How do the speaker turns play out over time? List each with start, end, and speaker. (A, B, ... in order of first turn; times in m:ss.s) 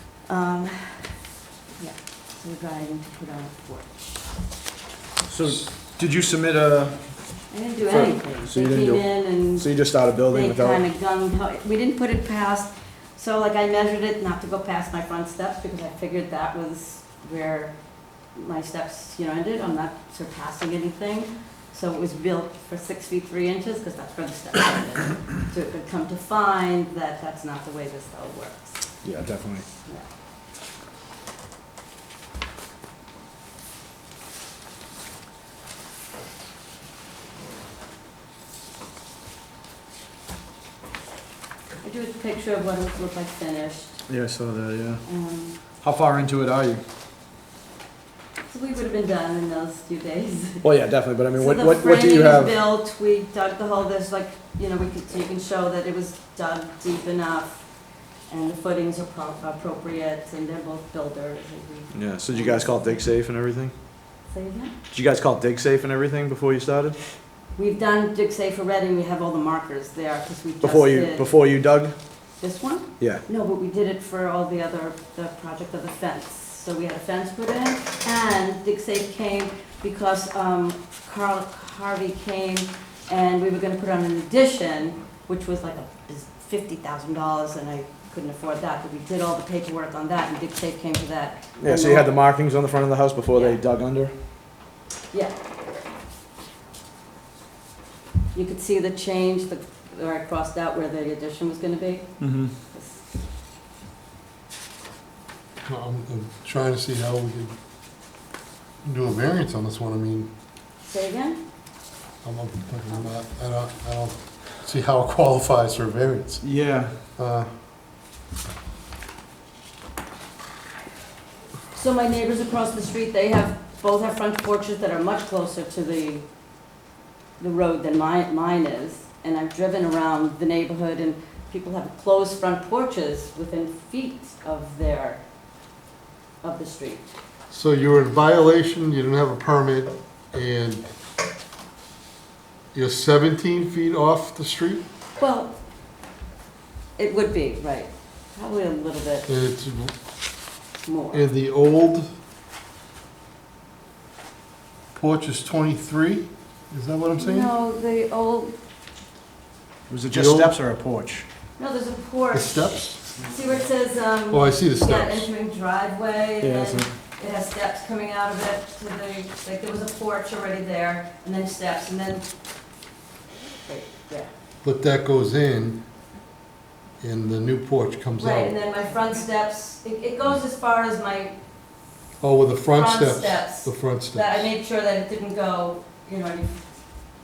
0:00.3-0:01.2 A
0:01.8-0:04.2 A
0:05.3-0:07.0 B
0:07.5-0:09.7 A
0:07.9-0:10.8 B
0:10.3-0:17.7 A
0:18.3-0:28.8 A
0:29.0-0:29.6 B
0:41.8-0:44.0 A
0:44.1-0:45.0 B
0:45.0-0:45.6 A
0:45.8-0:46.8 B
0:48.5-0:50.7 A
0:50.6-0:52.6 B
0:51.4-0:57.6 A
0:58.3-1:03.0 A
1:01.9-1:03.7 B
1:04.3-1:04.7 A
1:04.9-1:07.0 B
1:07.6-1:11.2 A
1:10.6-1:11.9 B
1:12.4-1:32.2 A
1:31.6-1:34.1 B
1:33.3-1:33.6 A
1:38.3-1:42.1 A
1:42.7-1:43.0 A
1:45.6-1:47.5 C
1:48.8-1:50.3 C
1:50.8-1:51.4 A
1:52.2-1:56.4 C
1:56.4-1:56.9 B
1:57.2-1:57.5 C
2:01.7-2:06.2 A
2:07.4-2:15.2 A
2:16.4-2:17.1 A
2:17.5-2:20.8 C
2:22.7-2:24.8 C
2:25.2-2:25.5 A
2:27.0-2:29.3 A
2:29.3-2:29.9 C
2:30.8-2:31.2 A
2:31.1-2:32.1 C
2:34.9-2:37.5 C
2:37.2-2:38.5 A
2:39.9-2:41.2 B
2:40.1-2:40.6 C
2:41.6-2:52.3 A
2:42.3-2:43.0 C
2:44.3-2:45.3 C
2:46.4-2:46.9 B
2:53.5-2:54.3 A
2:54.6-2:55.8 C
2:57.0-2:58.5 C
2:58.2-3:01.3 A
3:02.2-3:04.4 C
3:02.7-3:06.6 A